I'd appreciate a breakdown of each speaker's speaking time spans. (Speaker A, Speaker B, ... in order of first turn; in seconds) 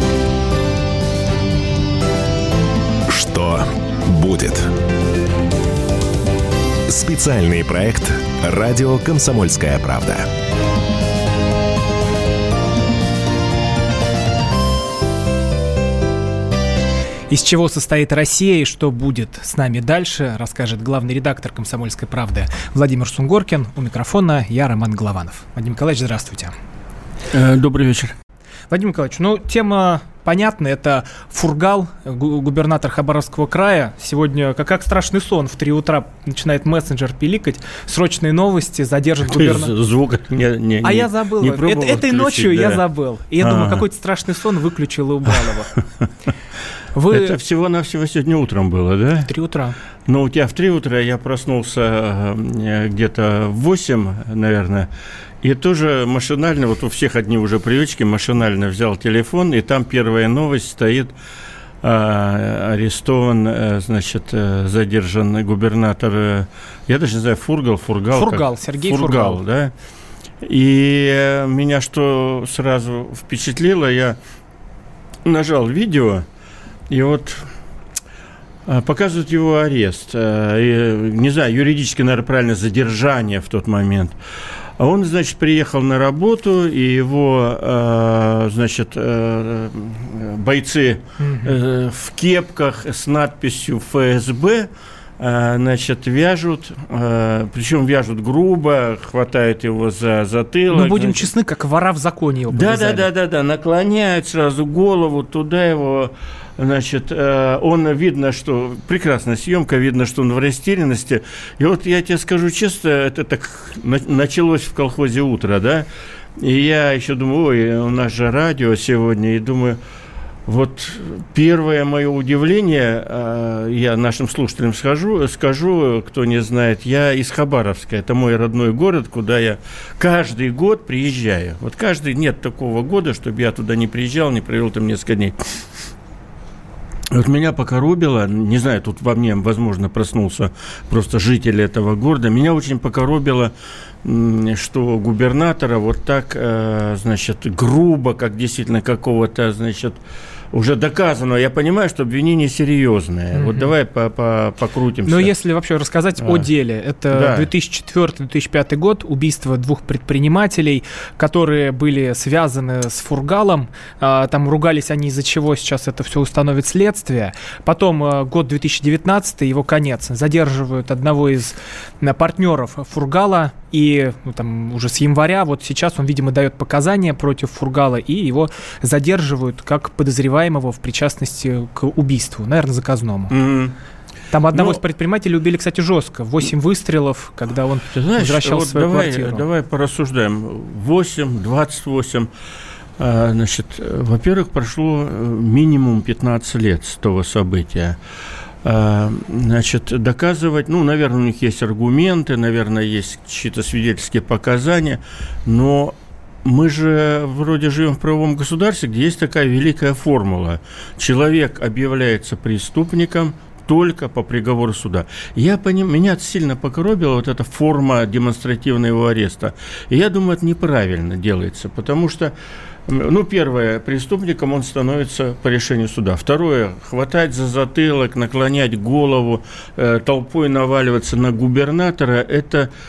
Speaker A: 3.1-4.7, 6.9-10.3
Speaker B: 17.3-26.5, 28.7-39.7, 40.8-45.7, 46.9-47.4, 49.3-49.8, 68.1-69.4, 91.2-91.5, 100.7-103.1, 153.3-153.7, 155.1-183.3, 184.3-189.4
Speaker C: 27.3-28.1, 39.3-42.8, 43.4-43.8, 47.1-49.3, 50.1-54.9, 55.4-61.1, 61.8-69.7, 70.4-74.2, 75.3-76.2, 76.9-77.5, 78.7-84.2, 84.8-94.7, 95.2-101.3, 102.5-115.9, 116.4-119.8, 120.5-135.4, 137.1-143.5, 144.0-150.0, 150.5-155.3, 156.2-156.5, 157.1-157.5, 183.3-183.8, 184.5-184.8, 187.9-192.3, 193.0-198.0, 198.6-222.3, 222.9-232.7